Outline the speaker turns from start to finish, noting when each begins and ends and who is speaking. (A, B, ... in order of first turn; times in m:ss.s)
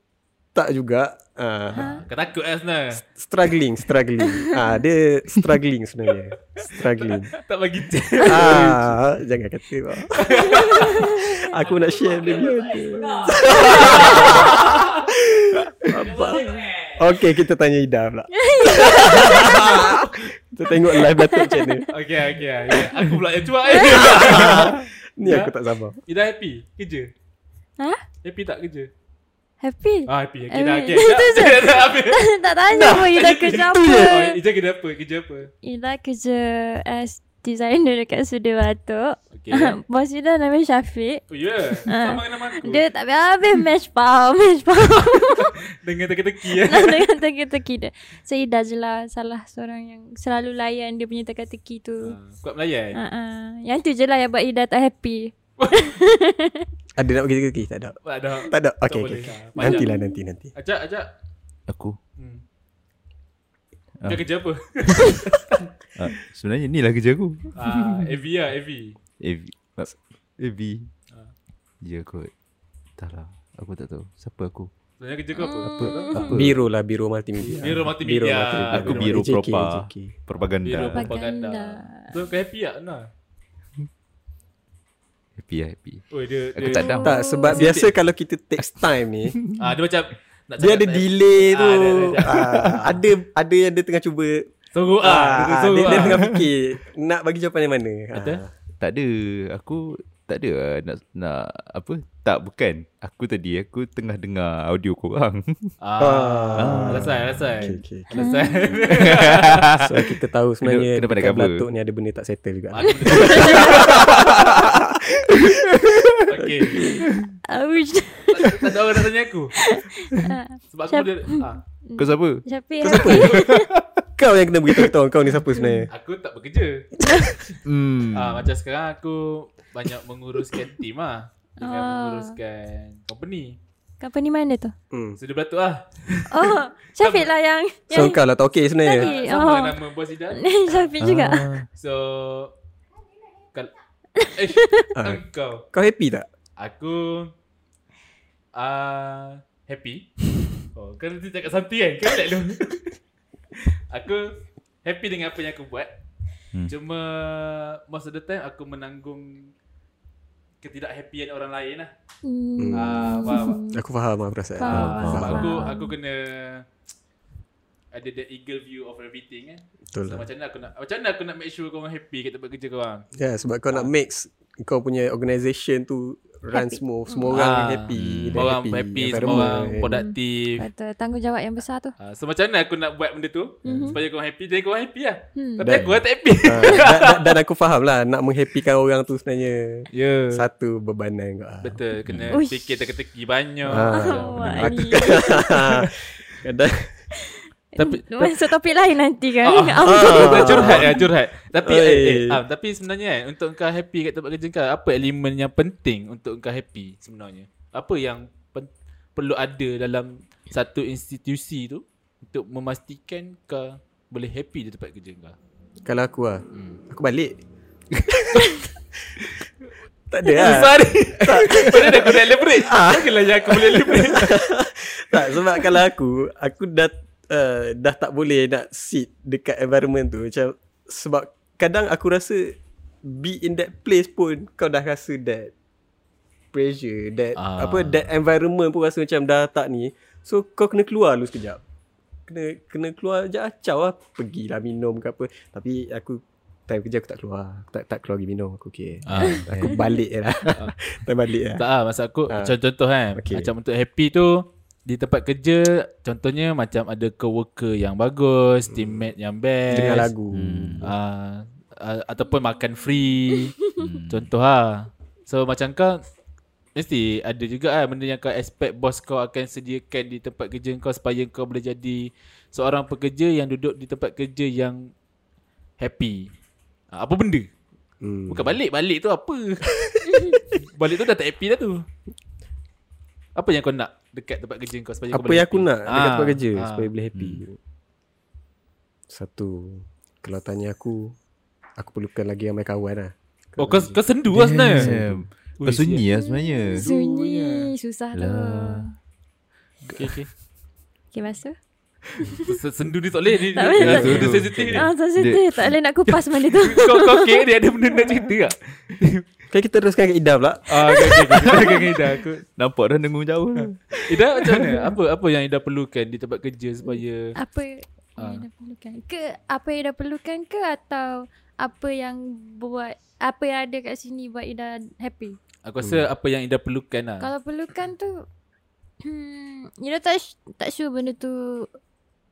0:00.5-0:01.9 A
0:01.7-0:03.0 B
0:01.8-0:02.0 C
0:03.0-0:07.3 A
0:04.3-0:04.8 C
0:06.6-0:08.9 B
0:08.2-0:21.9 A
0:10.2-0:12.6 B
0:10.4-0:11.4 C
0:13.2-0:15.0 B
0:16.1-0:16.4 B
0:18.3-0:19.9 C
0:18.9-0:20.0 B
0:21.0-0:21.7 C
0:21.9-0:25.5 B
0:23.7-0:24.2 C
0:23.8-0:26.0 A
0:26.0-0:27.1 B
0:28.2-0:28.9 B
0:29.6-0:34.4 C
0:30.1-0:35.5 B
0:33.7-0:34.2 A
0:35.6-0:41.2 C
0:39.3-0:39.8 B
0:41.3-0:42.8 B
0:41.8-0:45.6 C
0:45.3-0:47.1 B
0:46.6-0:52.1 C
0:52.0-0:53.0 B
0:52.9-0:56.7 C
0:55.6-0:55.9 B
0:57.0-1:00.5 A
0:58.0-0:59.9 B
0:59.6-1:00.2 C
1:00.6-1:01.1 B
1:01.7-1:02.0 D
1:02.2-1:02.4 B
1:04.0-1:05.7 B
1:04.9-1:05.2 D
1:05.9-1:08.2 D
1:07.5-1:09.0 B
1:09.2-1:10.9 D
1:11.8-1:12.3 D
1:13.0-1:14.7 D
1:15.0-1:16.4 B
1:15.3-1:16.3 C
1:15.8-1:16.6 D
1:16.3-1:20.1 A
1:17.6-1:19.2 B
1:18.7-1:21.1 D
1:20.6-1:23.1 B
1:20.9-1:22.2 C
1:25.4-1:27.2 D
1:26.1-1:27.9 B
1:26.6-1:27.6 C
1:27.0-1:29.4 A
1:29.6-1:33.0 B
1:30.6-1:34.5 A
1:34.7-1:36.3 B
1:35.0-1:38.5 A
1:36.0-1:36.4 D
1:38.1-1:38.4 B
1:38.8-1:45.8 D
1:45.8-1:49.7 B
1:46.0-1:48.2 A
1:46.6-1:47.7 D
1:48.1-1:48.8 C
1:48.9-1:50.1 D
1:49.7-1:57.1 A
1:50.6-1:51.7 D
1:52.7-1:54.3 B
1:53.1-1:54.1 C
1:53.7-1:54.8 D
1:55.3-1:56.3 D
1:56.2-1:56.9 B
1:57.5-1:58.8 C
1:58.3-1:59.5 B
1:59.5-2:03.7 C
2:00.7-2:01.6 B
2:02.0-2:02.4 D
2:02.8-2:03.5 A
2:03.1-2:03.5 B
2:03.4-2:03.8 D
2:04.2-2:05.9 A
2:05.9-2:06.9 B
2:07.0-2:07.2 A
2:07.0-2:07.4 C
2:07.6-2:08.5 D
2:08.1-2:13.6 B
2:11.6-2:12.3 C
2:14.0-2:14.7 C
2:14.9-2:15.2 A
2:15.2-2:17.3 B
2:16.3-2:18.2 C
2:17.9-2:19.1 A
2:18.8-2:19.8 C
2:18.9-2:21.0 B
2:20.4-2:21.5 C
2:21.0-2:21.6 D
2:21.0-2:21.5 A
2:21.8-2:22.5 B
2:24.2-2:24.9 C
2:24.3-2:25.6 B
2:25.0-2:26.3 A
2:26.6-2:27.3 B
2:28.5-2:30.1 B
2:30.6-2:32.9 B
2:33.7-2:34.3 B
2:34.8-2:35.9 B
2:36.7-2:39.5 B
2:40.6-2:41.9 B
2:42.2-2:43.8 C
2:42.6-2:45.5 A
2:42.7-2:43.6 B
2:44.6-2:45.9 C
2:44.6-2:46.6 B
2:44.7-2:45.5 D
2:47.9-2:53.1 B
2:49.9-2:50.3 A
2:53.2-3:00.0 A
2:56.5-2:57.3 C
2:57.3-3:00.6 B
2:57.9-2:58.4 D
2:59.2-3:01.9 C
3:02.0-3:07.4 B
3:03.6-3:04.0 C
3:03.6-3:04.0 A
3:05.3-3:05.7 C
3:05.6-3:05.8 A
3:05.7-3:06.0 D
3:06.4-3:11.8 A
3:09.9-3:10.4 B
3:11.6-3:14.8 B
3:12.0-3:12.4 D
3:12.3-3:12.8 C
3:13.6-3:16.9 A
3:13.8-3:15.6 C
3:14.4-3:14.7 D
3:17.2-3:21.1 C
3:17.8-3:18.3 B
3:19.4-3:35.4 B
3:19.8-3:21.0 A
3:21.5-3:22.4 A
3:35.8-3:37.3 A
3:36.5-3:36.8 B
3:37.9-3:38.6 B
3:40.1-3:55.5 A
3:40.3-3:44.4 B
3:56.5-4:01.6 A
3:57.4-3:58.1 B
4:02.3-4:11.6 A
4:09.1-4:09.5 B
4:09.1-4:09.8 D
4:11.6-4:20.1 B
4:12.3-4:12.5 A
4:13.1-4:13.5 A
4:18.7-4:19.1 A
4:19.7-4:20.9 A
4:20.3-4:20.9 D
4:20.8-4:26.0 B
4:23.8-4:24.3 D
4:26.7-4:34.9 B
4:35.8-4:36.3 B
4:36.9-4:37.5 B
4:38.0-4:38.6 A
4:38.3-4:41.8 B
4:43.4-4:46.9 B
4:45.1-4:47.6 A
4:47.1-4:47.4 D
4:49.1-4:51.2 A
4:51.8-4:54.0 A
4:53.6-4:55.0 B
4:54.3-4:56.9 D
4:54.7-4:55.1 A
4:55.6-4:56.0 B
4:56.1-4:58.9 C
4:56.8-4:57.7 B
4:58.1-4:58.9 D
4:59.9-5:00.3 B
5:01.1-5:01.6 C
5:02.2-5:02.5 C
5:02.4-5:04.9 B
5:03.5-5:07.4 C
5:03.8-5:05.8 D
5:06.4-5:09.2 B
5:09.5-5:11.6 A
5:10.7-5:12.4 B
5:11.6-5:12.0 C
5:12.6-5:13.8 D
5:14.0-5:17.3 B
5:17.4-5:25.4 C
5:18.2-5:18.4 B
5:25.6-5:27.3 B
5:27.2-5:28.2 C
5:29.0-5:31.7 C